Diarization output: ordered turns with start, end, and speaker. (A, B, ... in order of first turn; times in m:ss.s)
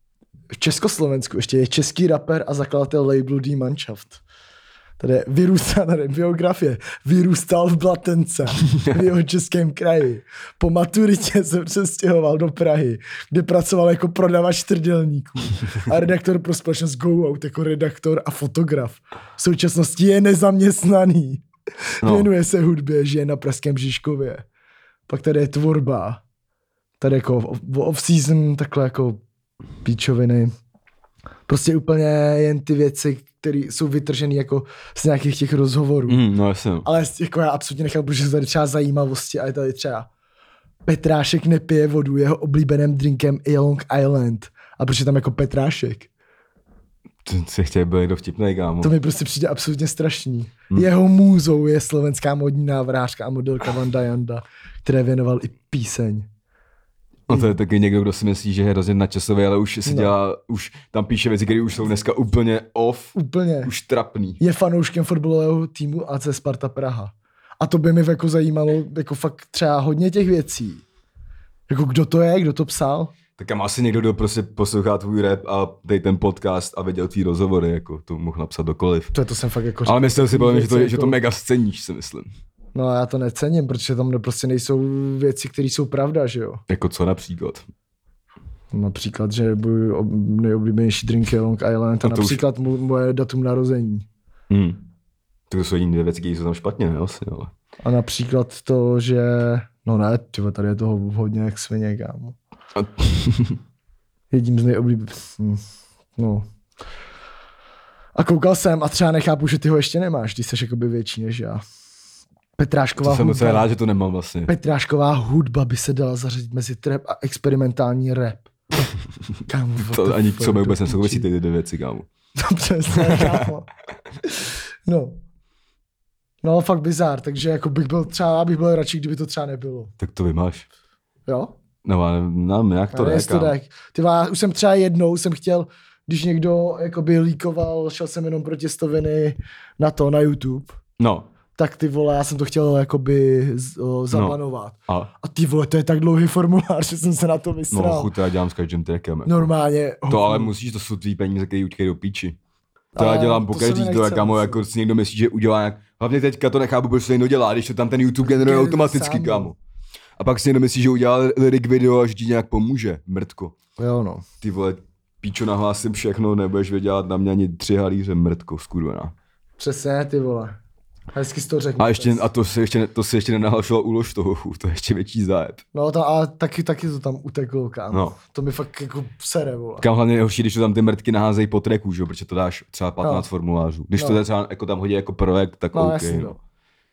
0:00.5-0:04.2 A
0:05.0-0:21.4 A
0:22.0-0:24.4 A
0:22.0-0:22.3 B
0:25.1-0:26.2 A
0:27.0-0:29.2 A
0:29.8-0:30.5 A
0:31.5-0:36.2 A
0:36.1-0:36.9 B
0:36.8-0:40.1 A
0:40.8-0:46.1 A
0:47.2-0:48.9 B
0:48.8-0:56.3 A
0:57.3-1:04.4 B
0:59.8-1:00.1 A
1:03.1-1:03.7 A
1:04.4-1:10.8 A
1:11.7-1:13.1 A
1:13.4-1:19.1 B
1:19.1-1:21.2 A
1:19.8-1:22.3 B
1:22.7-1:26.6 A
1:26.7-1:27.6 B
1:28.7-1:34.0 A
1:32.0-1:32.4 B
1:34.5-1:34.8 B
1:35.5-1:37.5 B
1:37.8-1:42.4 A
1:42.8-1:43.6 B
1:44.3-1:45.6 A
1:46.2-1:46.5 A
1:48.1-1:51.6 A
1:52.6-1:53.7 A
1:53.0-1:54.5 B
1:54.5-1:58.5 A
1:59.5-2:01.2 A
1:59.8-2:02.1 B
2:02.4-2:03.7 A
2:03.0-2:03.4 B
2:04.2-2:05.2 A
2:06.4-2:09.9 A
2:10.0-2:10.7 B
2:11.3-2:11.5 A
2:11.8-2:13.5 B
2:12.9-2:20.8 A
2:21.0-2:21.3 B
2:21.6-2:28.1 A
2:24.1-2:25.1 B
2:27.7-2:29.5 B
2:29.2-2:30.5 A
2:30.1-2:32.4 B
2:32.9-2:34.6 A
2:33.0-2:39.6 B
2:38.2-2:39.5 A
2:40.2-2:43.6 B
2:43.8-2:44.2 A
2:44.4-2:49.1 B
2:49.6-2:50.6 A
2:51.1-2:52.3 A
2:51.8-2:55.6 B
2:55.7-2:59.8 A
2:57.9-2:58.2 B
2:59.8-3:06.3 B
3:03.0-3:03.3 A
3:05.7-3:06.4 A